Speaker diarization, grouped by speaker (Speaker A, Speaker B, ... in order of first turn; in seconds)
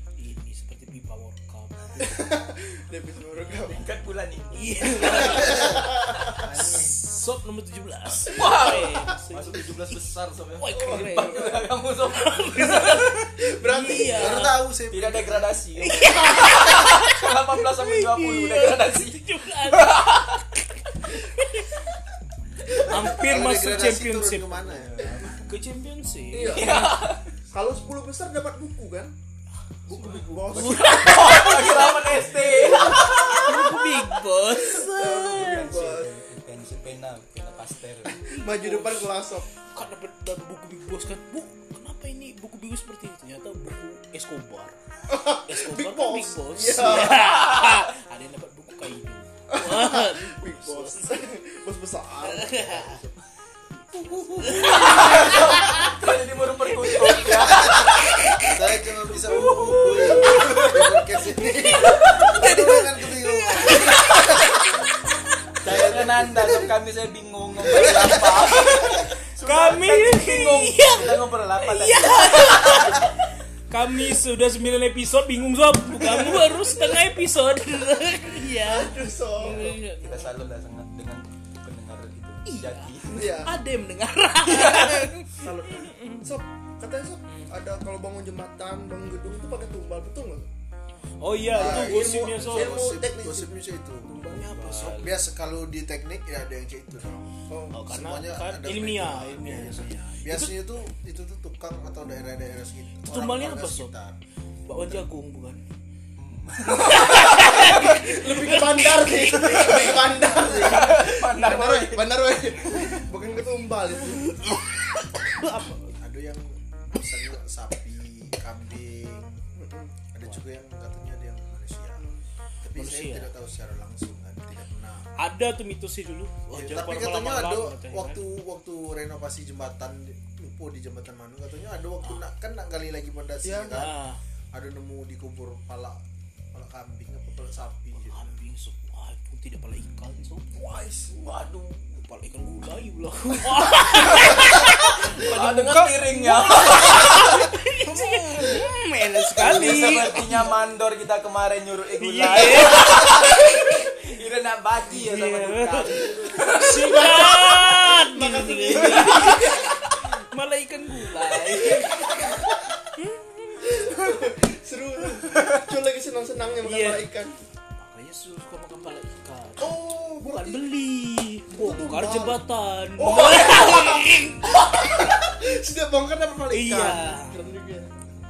Speaker A: 0.2-2.2, 4.5-9.9, 10.6-14.6, 15.8-21.8, 22.7-24.8, 25.4-27.1, 29.9-35.6, 38.3-39.2, 39.7-44.8, 45.5-51.2, 52.2-53.0, 53.8-56.0, 56.8-58.6, 59.2-64.6, 69.4-73.2, 73.7-80.3, 82.5-86.3, 91.2-92.8, 94.3-94.9, 97.7-100.6, 103.0-103.9, 104.7-105.6, 106.7-109.7, 115.2-115.9, 122.8-123.3, 125.2-128.2, 133.7-134.2, 138.0-140.7, 141.9-150.5, 152.0-154.1, 154.9-163.8, 166.6-167.1, 167.8-175.0, 176.5-177.4
Speaker B: 2.0-3.9, 5.0-6.5, 8.4-9.1, 10.9-11.5, 13.4-14.5, 26.3-26.9, 27.5-29.1, 29.9-31.6, 32.4-36.1, 38.1-39.5, 45.1-47.5, 49.5-53.2, 54.2-55.4, 78.5-79.8, 83.1-83.6, 84.7-90.5, 91.5-93.5, 97.5-97.8, 107.8-114.4, 119.5-120.0, 133.4-133.9, 156.8-159.6, 161.4-162.6, 163.6-167.4, 169.6-170.7, 171.5-172.4, 173.0-178.0
Speaker C: 3.7-5.5, 8.2-13.3, 14.9-20.4, 24.8-25.4, 26.4-27.3, 30.5-33.9, 35.0-38.2, 47.2-47.9, 54.5-58.1, 59.5-60.8, 65.6-73.1, 76.2-76.5, 79.4-83.3, 84.5-85.1, 94.3-95.2, 106.2-108.0, 109.1-113.0, 140.6-141.8, 143.9-148.7, 149.3-157.3, 158.9-159.7, 165.3-165.6
Speaker D: 5.2-7.0, 14.0-15.6, 22.9-25.3, 58.5-64.5, 65.6-66.7, 67.7-68.8, 91.5-97.3, 97.8-104.2, 110.4-110.9, 116.0-119.4, 120.1-122.0, 122.6-125.1, 126.5-134.0, 134.5-136.0, 136.5-138.4